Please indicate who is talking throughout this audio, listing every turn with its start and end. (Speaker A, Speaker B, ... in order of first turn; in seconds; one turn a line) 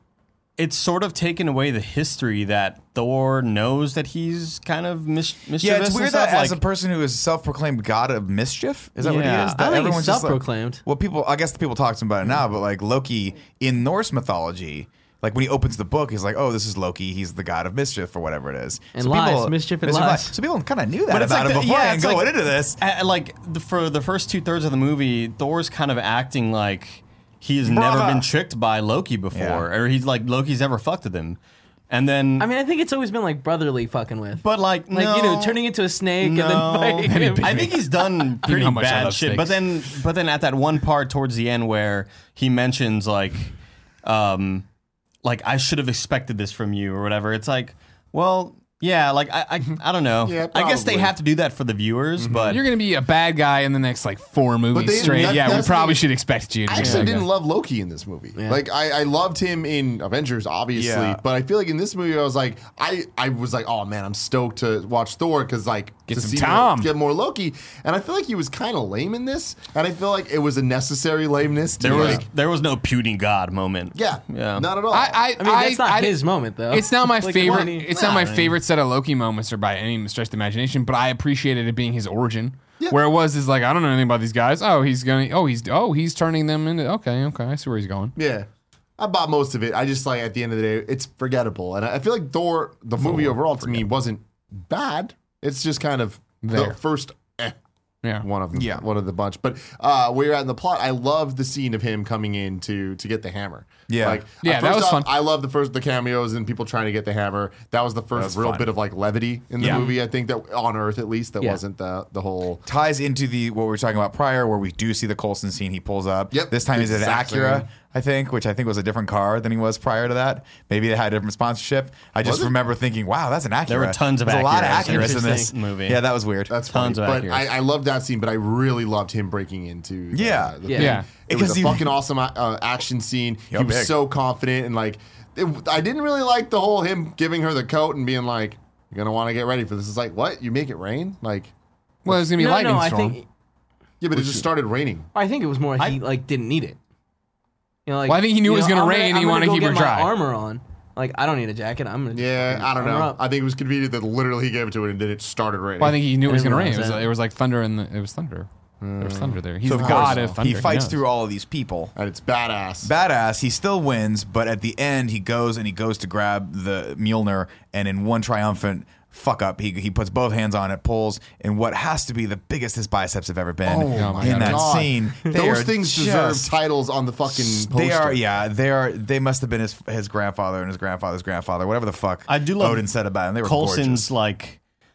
Speaker A: 0.6-6.6
Speaker B: 5.6-22.8
Speaker A: 9.0-9.6
Speaker C: 9.1-10.8
Speaker C: 18.9-20.4
Speaker A: 21.1-31.4
Speaker B: 27.7-28.3
Speaker B: 29.3-29.7
Speaker A: 31.9-32.5
Speaker C: 32.4-37.8
Speaker A: 34.4-35.6
Speaker A: 36.2-43.5
Speaker D: 37.0-39.6
Speaker A: 44.0-44.6
Speaker A: 45.2-52.6
Speaker E: 50.2-51.1
Speaker E: 52.2-52.6
Speaker D: 52.5-57.3
Speaker E: 54.7-56.1
Speaker A: 55.0-55.6
Speaker E: 56.6-72.3
Speaker A: 56.7-57.2
Speaker C: 58.4-58.6
Speaker B: 60.7-61.2
Speaker D: 66.1-66.9
Speaker A: 71.8-74.7
Speaker D: 71.9-72.2
Speaker E: 73.9-75.3
Speaker D: 74.9-88.2
Speaker C: 75.3-77.9
Speaker A: 77.4-78.5
Speaker E: 88.2-97.5
Speaker B: 93.0-93.8
Speaker D: 93.0-93.3
Speaker D: 96.4-96.8
Speaker E: 98.2-112.6
Speaker B: 98.5-98.8
Speaker B: 103.9-104.2
Speaker D: 104.4-105.1
Speaker B: 108.1-108.7
Speaker B: 109.6-109.9
Speaker B: 112.7-126.5
Speaker E: 116.3-117.7
Speaker E: 122.2-122.5
Speaker A: 123.7-126.0
Speaker C: 124.8-125.5
Speaker E: 126.5-141.5
Speaker A: 126.7-127.5
Speaker B: 130.1-131.9
Speaker C: 130.6-131.0
Speaker D: 130.8-131.1
Speaker B: 133.5-134.0
Speaker D: 142.0-143.2
Speaker C: 142.2-143.2
Speaker E: 144.0-145.1
Speaker D: 144.1-144.4
Speaker C: 145.1-146.8
Speaker C: 147.8-153.2
Speaker D: 148.1-150.1
Speaker E: 152.1-156.1
Speaker D: 155.8-161.0
Speaker A: 156.5-156.9
Speaker E: 158.8-160.4
Speaker B: 159.6-161.9
Speaker E: 161.9-162.9
Speaker B: 162.8-176.5
Speaker E: 173.7-178.2
Speaker D: 173.9-174.8
Speaker B: 177.3-184.1
Speaker A: 182.3-182.9
Speaker A: 183.4-184.6